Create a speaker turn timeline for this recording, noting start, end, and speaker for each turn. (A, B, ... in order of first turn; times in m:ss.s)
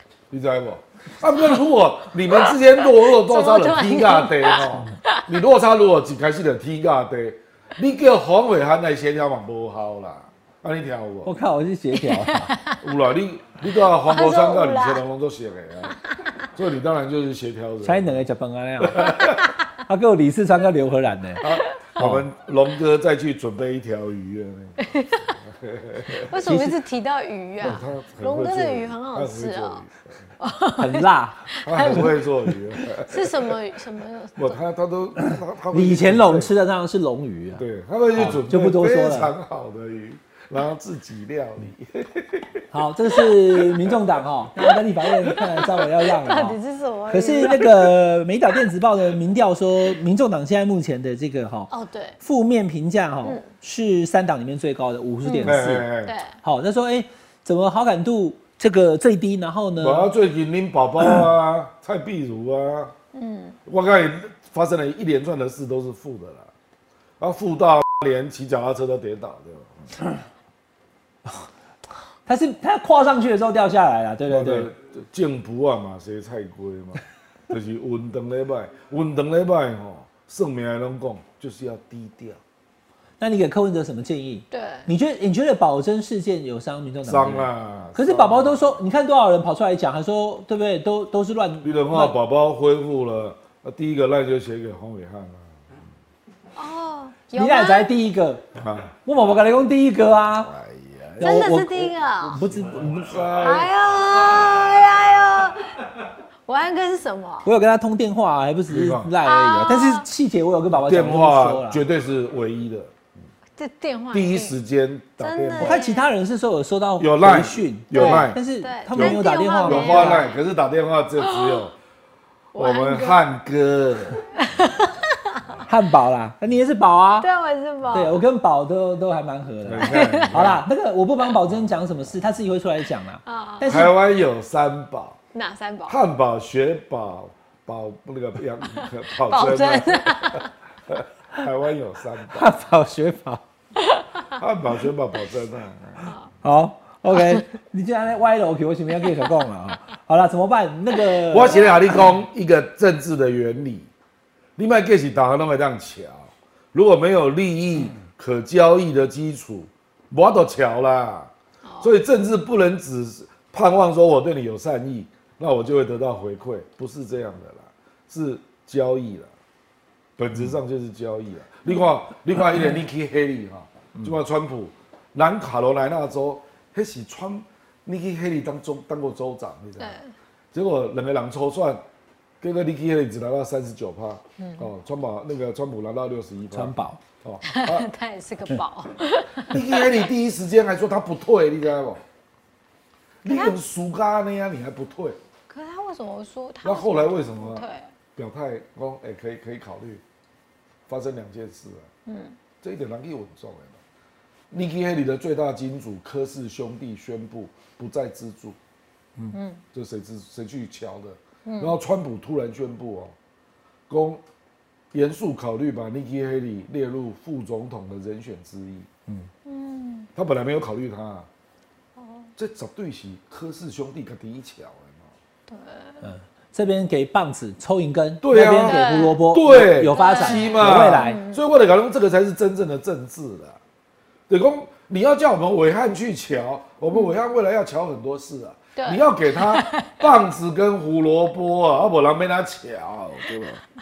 0:00.3-0:11.3 A
0:02.3-0:05.2 B
0:11.2-0:12.5 C
0:12.0-0:12.8 B
0:12.8-0:16.0 A
0:14.1-0:15.0 B
0:16.5-0:18.2 A
0:17.8-0:21.4 C
0:18.8-0:19.5 A
0:21.4-0:26.6 A
0:22.0-0:22.2 C
0:24.8-0:25.4 B
0:26.2-0:29.9 B
0:26.4-0:26.7 C
0:27.6-0:30.2 A
0:30.4-0:32.2 B
0:30.8-0:32.0 C
0:31.6-0:33.6 A
0:32.9-0:34.6 B
0:34.4-0:36.5 A
0:35.2-0:39.3 C
0:37.6-0:42.6 A
0:42.7-0:46.6 C
0:46.1-0:47.7 B
0:47.1-0:55.9 C
0:51.7-0:52.2 B
0:55.2-0:56.4 B
0:55.4-0:56.1 A
0:56.4-1:00.1 C
0:59.8-1:02.9 A
1:03.1-1:03.6 B
1:03.6-1:06.5 A
1:07.2-1:09.9 A
1:12.2-1:14.7 C
1:14.3-1:22.4 A
1:23.2-1:32.1 C
1:24.5-1:24.9 B
1:27.0-1:28.8 A
1:31.6-1:35.5 A
1:36.6-1:37.9 B
1:37.3-1:38.4 C
1:38.5-1:38.9 A
1:39.0-1:40.5 C
1:40.4-1:43.7 A
1:41.2-1:42.4 B
1:41.2-1:42.9 C
1:43.4-1:45.8 B
1:46.4-1:47.5 B
1:47.4-1:51.8 C
1:48.7-1:49.1 A
1:49.2-1:50.1 B
1:50.7-1:52.9 A
1:53.6-1:54.6 B
1:54.1-1:55.8 A
1:55.2-1:56.1 B
1:55.6-2:00.2 C
1:57.0-1:58.4 A
1:57.9-2:00.4 B
1:58.9-2:01.7 A
2:01.2-2:01.6 B
2:02.5-2:03.2 B
2:02.5-2:04.2 A
2:04.4-2:05.4 B
2:05.6-2:07.3 C
2:07.2-2:08.2 B
2:07.9-2:13.9 C
2:09.6-2:10.6 A
2:09.8-2:10.4 B
2:13.2-2:13.9 B
2:13.6-2:15.2 A
2:15.3-2:16.0 B
2:15.9-2:22.5 A
2:18.8-2:20.5 B
2:22.3-2:23.4 C
2:23.8-2:24.4 B
2:24.4-2:26.1 A
2:26.4-2:31.6 C
2:27.1-2:27.4 B
2:29.0-2:29.3 B
2:31.3-2:33.9 A
2:31.5-2:32.0 B
2:34.6-2:49.3 A
2:41.6-2:41.9 B
2:50.2-3:00.0 A
2:59.8-3:00.1 B
3:00.5-3:01.8 A
3:02.4-3:07.9 A
3:04.4-3:04.7 B
3:06.5-3:07.0 C
3:07.4-3:10.0 B
3:09.5-3:12.0 A
3:13.2-3:15.2 A
3:13.2-3:13.6 B
3:15.5-3:17.9 B
3:16.6-3:17.6 A
3:18.2-3:20.0 A
3:20.9-3:21.9 A
3:22.0-3:22.4 B
3:22.6-3:23.8 A
3:24.5-3:28.6 A
3:29.3-3:29.6 B
3:29.7-3:33.1 A
3:31.4-3:31.7 B
3:33.9-3:34.2 A
3:34.9-3:38.9 A
3:39.4-3:40.1 B
3:40.2-3:41.3 A
3:42.0-3:42.3 B
3:42.4-3:45.1 A
3:45.5-3:46.1 B
3:46.0-3:51.2 C
3:48.2-3:53.6 A
3:48.6-3:49.2 B
3:49.9-3:51.4 B
3:54.3-4:03.6 A
3:58.8-4:00.0 B